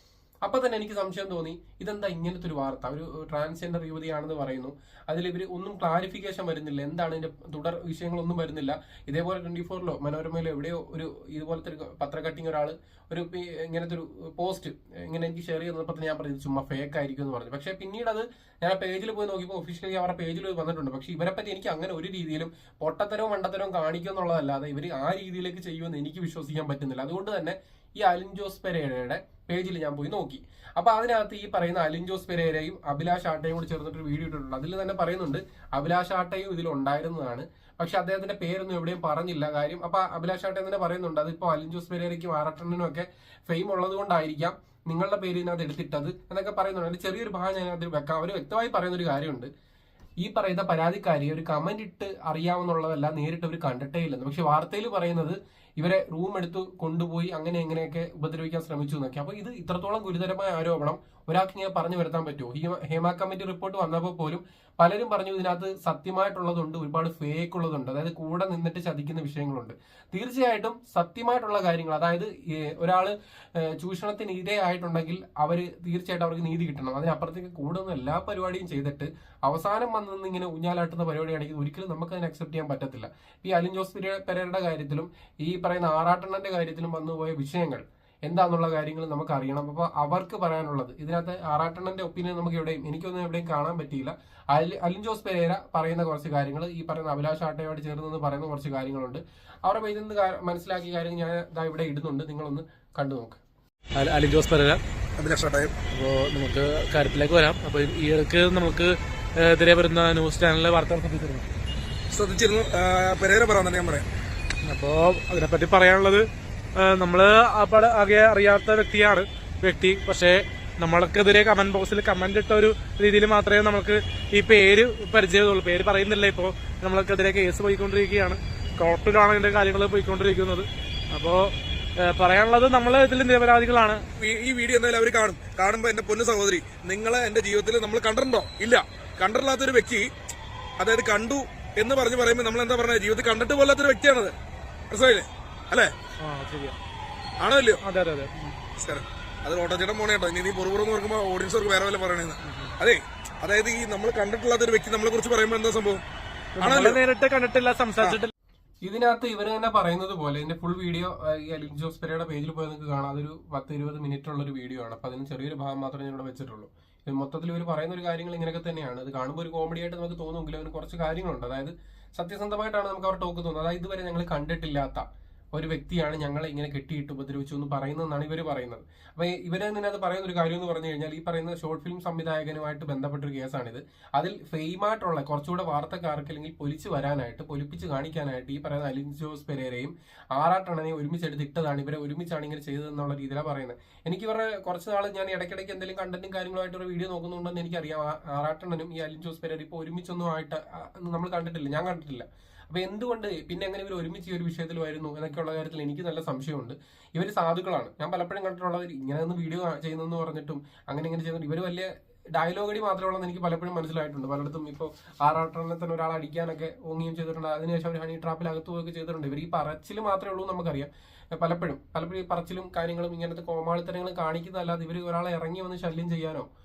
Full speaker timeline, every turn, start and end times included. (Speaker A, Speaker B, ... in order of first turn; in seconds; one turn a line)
Speaker A: 0.4-49.5
Speaker A: 50.2-103.4
Speaker B: 104.0-104.8
Speaker C: 105.2-105.7
Speaker B: 105.9-111.5
Speaker C: 112.1-114.1
Speaker B: 114.6-116.2
Speaker B: 116.8-134.0
Speaker C: 134.2-140.1
Speaker C: 140.8-144.3
Speaker C: 144.9-145.9
Speaker B: 146.2-146.8
Speaker C: 147.4-147.8
Speaker B: 147.8-148.6
Speaker C: 148.8-156.0
Speaker B: 156.6-158.3
Speaker C: 156.6-157.0
Speaker A: 158.8-226.5